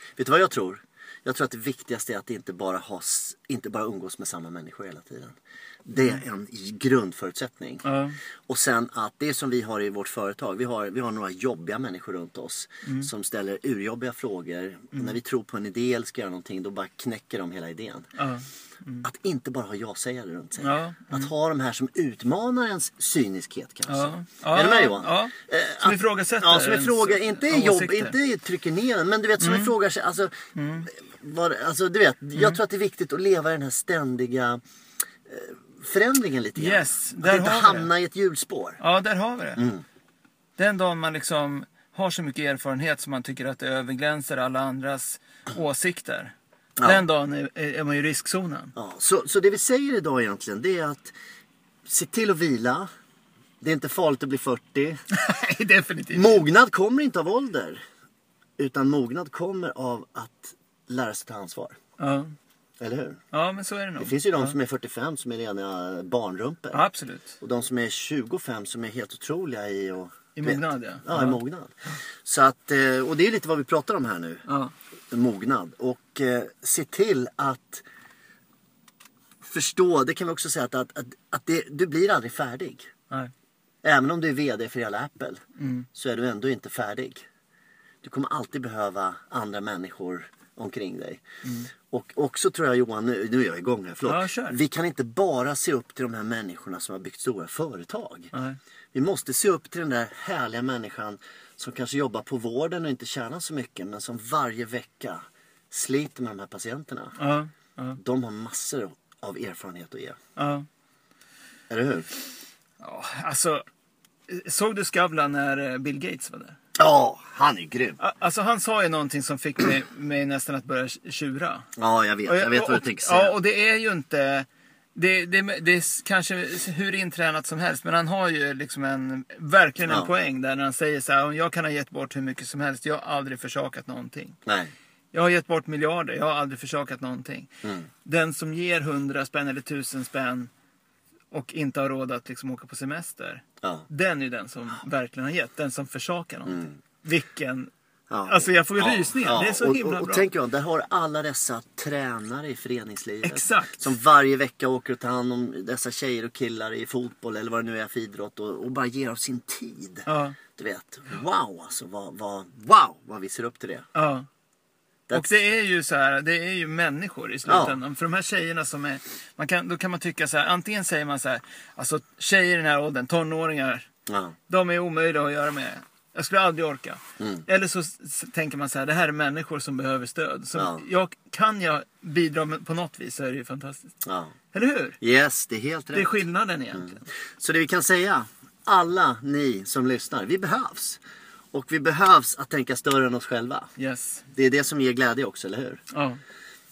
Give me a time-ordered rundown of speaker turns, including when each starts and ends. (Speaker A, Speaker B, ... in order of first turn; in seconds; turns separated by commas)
Speaker A: 0.2-7.9, Speaker B: 6.0-6.2, Speaker B: 7.8-8.2, Speaker A: 8.5-18.1, Speaker B: 12.8-13.1, Speaker B: 18.2-19.1, Speaker A: 19.0-30.4, Speaker B: 20.6-21.3, Speaker B: 23.9-28.2, Speaker B: 29.4-29.7, Speaker B: 30.6-30.9, Speaker A: 30.9-34.6, Speaker A: 35.3-38.8, Speaker B: 36.6-37.9, Speaker B: 38.8-39.7, Speaker A: 39.6-39.8, Speaker B: 40.6-48.7, Speaker A: 46.8-47.0, Speaker A: 48.8-51.1, Speaker A: 51.9-52.9, Speaker A: 53.6-55.0, Speaker B: 55.1-56.4, Speaker A: 56.1-57.8, Speaker A: 58.6-61.8, Speaker B: 62.0-62.3, Speaker A: 62.8-63.2, Speaker B: 63.3-64.5, Speaker A: 64.0-66.8, Speaker B: 66.7-67.4, Speaker A: 67.4-74.4, Speaker B: 70.3-72.0, Speaker B: 74.5-74.7, Speaker A: 75.1-77.8, Speaker A: 79.4-82.9, Speaker A: 83.8-85.4, Speaker B: 85.6-85.9, Speaker A: 86.0-87.2, Speaker A: 88.0-91.2, Speaker B: 91.4-91.7, Speaker A: 91.9-98.3, Speaker B: 94.0-94.6, Speaker B: 98.3-98.6, Speaker A: 98.9-107.2, Speaker B: 107.2-108.0, Speaker A: 108.0-110.2, Speaker B: 110.4-110.7, Speaker A: 111.7-112.1, Speaker B: 112.8-113.6, Speaker B: 114.3-116.6, Speaker A: 116.8-118.0, Speaker B: 118.0-121.7, Speaker A: 121.8-123.4, Speaker B: 122.3-134.4, Speaker A: 129.8-130.1, Speaker A: 134.5-134.7, Speaker B: 135.1-137.5, Speaker A: 137.6-137.9, Speaker B: 138.0-140.5, Speaker B: 141.3-147.7, Speaker A: 143.6-143.9, Speaker A: 146.5-146.8, Speaker A: 148.1-163.8, Speaker B: 148.3-150.3, Speaker B: 153.2-153.8, Speaker B: 160.1-160.4, Speaker B: 163.9-164.3, Speaker B: 165.1-173.9, Speaker A: 167.5-167.8, Speaker A: 174.1-174.4, Speaker B: 174.5-183.9, Speaker A: 177.2-177.4, Speaker A: 180.6-180.8, Speaker A: 184.0-184.3, Speaker B: 184.5-185.0, Speaker A: 185.0-186.2, Speaker B: 185.9-187.1, Speaker A: 186.7-191.0, Speaker A: 191.5-193.7, Speaker B: 193.8-194.2, Speaker A: 194.3-195.8, Speaker B: 195.9-196.2